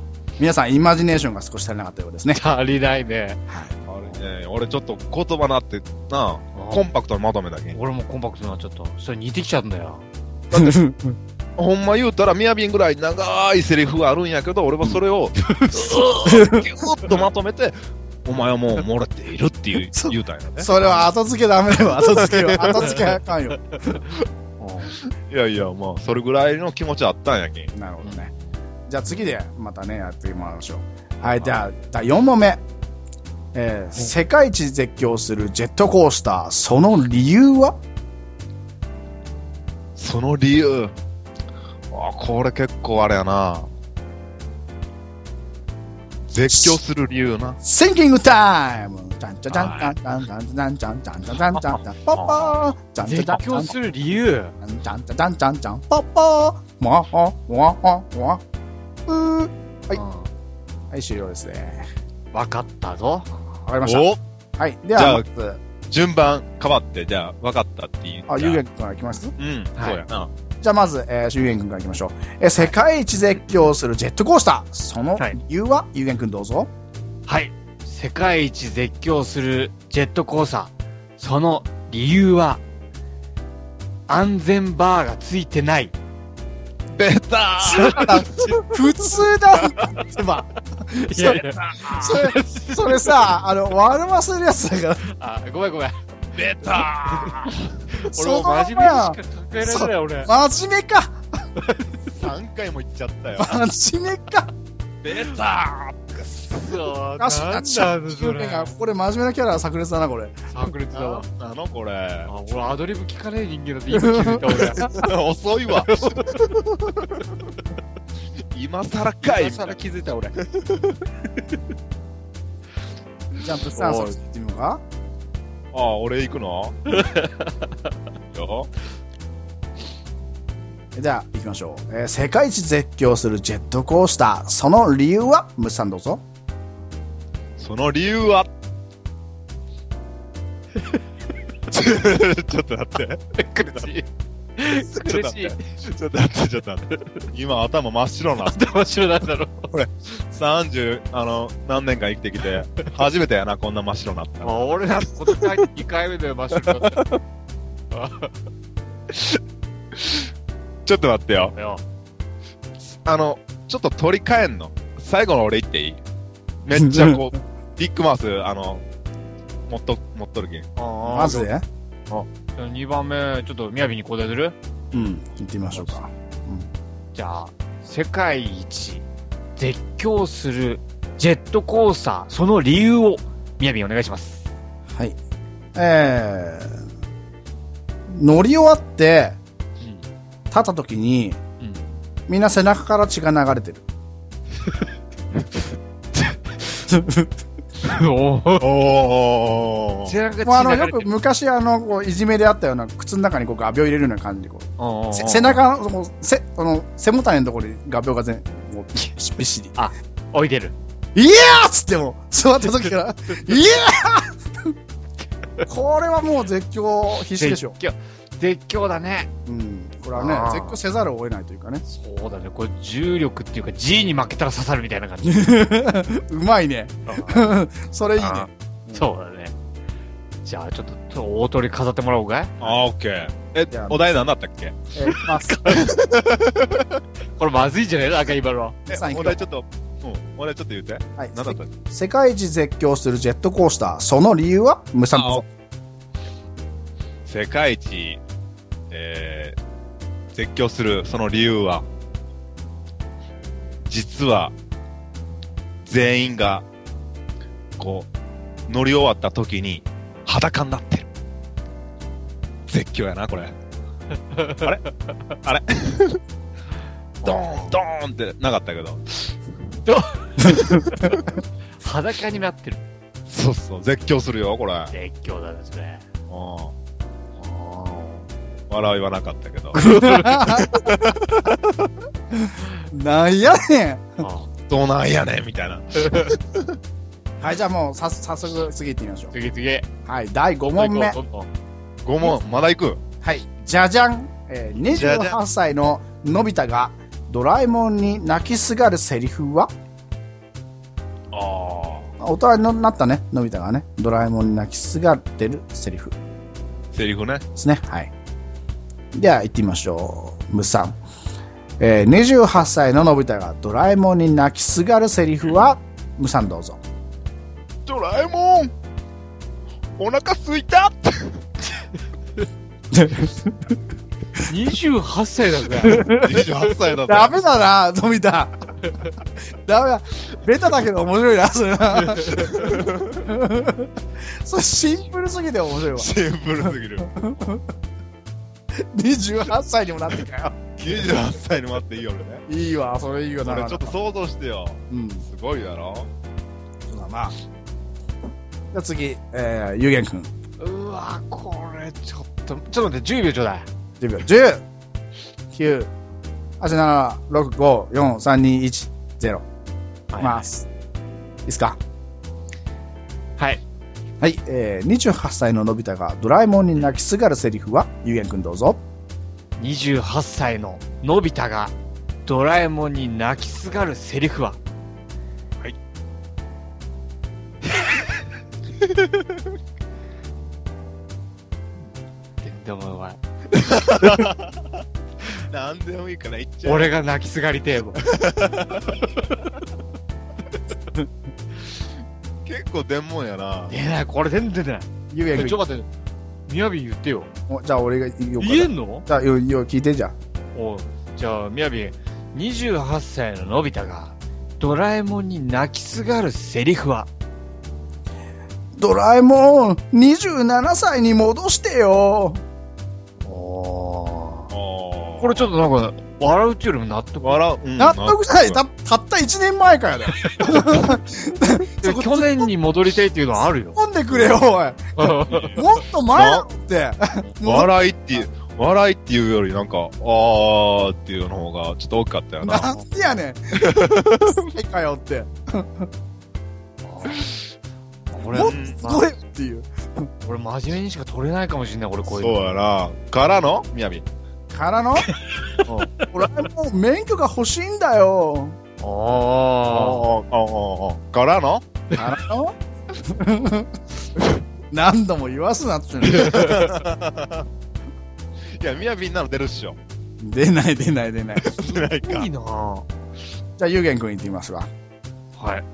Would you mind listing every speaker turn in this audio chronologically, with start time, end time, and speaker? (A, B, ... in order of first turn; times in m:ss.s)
0:00.4-0:02.4 A
0:02.3-0:03.4 B
0:03.8-0:07.8 C
0:06.5-0:06.8 B
0:07.7-0:10.1 B
0:10.5-0:11.2 A
0:11.6-0:20.7 C
0:15.5-0:16.3 B
0:16.2-0:16.6 A
0:19.9-0:23.6 A
0:22.1-0:23.0 C
0:24.6-0:25.0 B
0:25.3-0:27.7 C
0:27.7-0:28.3 A
0:28.9-0:32.6 A
0:33.5-0:37.8 A
0:40.0-0:40.9 C
0:41.9-0:43.7 C
0:46.3-0:47.6 C
0:46.5-0:46.8 A
0:47.6-0:53.7 A
0:49.5-0:49.9 C
0:52.2-0:54.5 B
0:54.6-0:58.4 A
0:59.1-1:00.0 A
0:59.9-1:00.3 B
1:00.9-1:01.8 A
1:02.3-1:03.4 B
1:03.6-1:05.6 A
1:03.8-1:04.2 C
1:04.9-1:05.2 C
1:05.9-1:08.6 C
1:08.3-1:09.3 A
1:09.4-1:10.3 C
1:10.6-1:16.7 A
1:17.3-1:22.6 B
1:24.1-1:25.9 B
1:26.9-1:28.6 C
1:27.6-1:35.0 A
1:27.7-1:28.3 B
1:30.9-1:33.1 B
1:31.6-1:32.1 C
1:35.1-1:36.0 B
1:36.3-1:37.7 C
1:37.0-1:40.3 B
1:38.1-1:41.2 A
1:41.6-1:42.0 B
1:42.1-1:43.6 C
1:43.4-1:44.5 A
1:45.0-1:46.6 C
1:46.5-1:48.7 B
1:47.2-1:50.4 A
1:50.5-1:51.2 B
1:50.9-1:52.3 C
1:52.2-1:54.9 B
1:53.9-1:55.0 A
1:54.8-1:57.2 C
1:55.8-1:56.4 B
1:58.5-1:59.8 C
1:59.2-2:00.4 B
2:00.4-2:01.0 C
2:03.4-2:04.8 A
2:03.7-2:04.2 B
2:05.7-2:06.8 C
2:06.9-2:07.6 B
2:08.3-2:08.7 C
2:10.9-2:16.2 A
2:17.6-2:18.5 C
2:21.7-2:23.2 C
2:23.3-2:25.6 B
2:24.9-2:28.6 C
2:26.9-2:27.2 B
2:28.4-2:29.7 B
2:29.7-2:34.6 C
2:34.4-2:37.0 B
2:36.8-2:37.2 C
2:37.9-2:38.3 B
2:39.1-2:39.4 C
2:40.0-2:40.2 C
2:40.8-2:41.5 C
2:41.5-2:41.8 B
2:43.0-2:46.0 C
2:46.6-2:48.8 C
2:46.8-2:47.2 A
2:49.7-2:50.7 C
2:50.8-2:51.5 B
2:51.0-2:51.6 A
2:52.5-2:54.6 B
2:54.9-2:56.7 A
2:57.1-3:04.5 B
3:05.7-3:06.8 A
3:08.1-3:09.4 A
3:09.8-3:10.0 B
3:10.5-3:11.4 A
3:11.6-3:11.9 B
3:12.3-3:13.8 A
3:16.9-3:17.3 A
3:17.8-3:18.7 B
3:18.6-3:20.1 C
3:20.0-3:21.1 B
3:20.4-3:29.8 A
3:24.8-3:25.6 B
3:29.7-3:30.7 B
3:31.1-3:34.7 A
3:35.6-3:37.8 A
3:37.3-3:39.3 B
3:39.4-3:41.8 A
3:40.1-3:40.8 B
3:41.8-3:45.6 B
3:45.2-3:49.0 A
3:47.1-3:47.5 B
3:48.2-3:49.5 B
3:50.4-3:52.8 B
3:52.6-3:54.8 C
3:53.7-3:54.0 A
3:54.9-3:55.6 A
3:55.1-3:55.9 B
3:55.7-3:57.0 C
3:57.4-3:58.8 B
3:58.9-3:59.4 A
3:58.9-4:01.7 C
4:01.2-4:05.4 A
4:05.1-4:05.4 C
4:07.2-4:08.2 C
4:08.9-4:09.6 C
4:10.3-4:11.8 C
4:13.9-4:14.5 C
4:15.8-4:16.6 C
4:17.8-4:18.1 C
4:18.7-4:21.1 C
4:22.7-4:23.5 C
4:24.3-4:24.9 B
4:25.4-4:26.2 C
4:27.2-4:27.8 B
4:27.2-4:29.3 C
4:29.8-4:31.2 B
4:31.8-4:32.8 B
4:33.3-4:34.9 C
4:34.9-4:36.0 B
4:36.3-4:36.7 C
4:37.4-4:38.3 B
4:38.7-4:39.8 C
4:39.7-4:40.4 B
4:39.8-4:40.9 A
4:40.4-4:41.9 C
4:42.3-4:44.2 A
4:44.2-4:44.5 B
4:44.7-4:46.7 C
4:46.0-4:46.3 B
4:47.4-4:49.3 A
4:49.3-4:49.9 B
4:50.0-4:51.2 A
4:50.6-4:51.5 B
4:52.0-4:53.0 C
4:53.2-4:59.7 A
4:54.8-4:55.4 C
5:01.3-5:02.1 C
5:02.2-5:06.1 A
5:06.9-5:07.4 C
5:07.6-5:08.1 A
5:09.1-5:11.0 A
5:11.8-5:16.8 A
5:17.8-5:18.7 C
5:20.0-5:21.4 C
5:22.9-5:23.5 A
5:24.4-5:26.1 B
5:25.8-5:26.4 A
5:26.0-5:27.4 C
5:27.0-5:28.5 A
5:29.6-5:36.1 A
5:32.1-5:32.5 B
5:32.3-5:33.3 C
5:35.9-5:37.5 C
5:37.0-5:37.6 A
5:38.8-5:41.1 A
5:40.8-5:42.4 C
5:42.5-5:44.0 A
5:43.4-5:46.1 C
5:44.9-5:45.2 A
5:46.9-5:47.3 A
5:48.7-5:50.3 A
5:50.6-5:53.7 B
5:54.0-5:54.6 A
5:55.5-5:55.9 A
5:56.6-5:59.4 A
6:00.1-6:00.5 B
6:00.2-6:00.7 A
6:01.4-6:01.8 A
6:04.2-6:08.8 A
6:09.6-6:11.7 B
6:12.2-6:14.6 B
6:19.0-6:19.2 C
6:22.4-6:23.2 B
6:23.5-6:24.6 C
6:25.5-6:26.9 C
6:26.6-6:28.0 B
6:28.0-6:29.0 C
6:32.4-6:33.7 C
6:33.7-6:35.9 B
6:35.1-6:35.6 A
6:36.5-6:37.3 B
6:37.5-6:40.1 A
6:38.4-6:39.0 B
6:40.5-6:47.1 B
6:48.8-6:52.4 A
6:53.2-6:54.5 B
6:54.5-6:55.5 C
6:55.2-6:57.4 B
6:57.2-6:58.6 C
6:57.8-7:02.5 A
7:01.8-7:03.8 B
7:03.8-7:08.2 A
7:04.1-7:04.4 C
7:05.0-7:05.6 B
7:05.3-7:06.4 C
7:07.4-7:12.8 C
7:12.4-7:15.9 A
7:13.6-7:14.4 C
7:16.8-7:17.3 B
7:18.1-7:19.0 B
7:18.3-7:20.1 A
7:18.4-7:18.7 C
7:20.2-7:22.5 B
7:22.1-7:24.0 C
7:24.5-7:25.1 A
7:25.1-7:26.0 B
7:26.1-7:28.6 A
7:28.8-7:30.0 B
7:29.7-7:31.6 C
7:31.9-7:33.7 A
7:34.7-7:36.6 A
7:36.1-7:36.8 B
7:36.1-7:37.5 C
7:38.6-7:39.8 C
7:40.2-7:41.5 A
7:41.4-7:42.3 C
7:41.6-7:42.9 B
7:43.6-7:44.7 A
7:45.4-7:45.6 B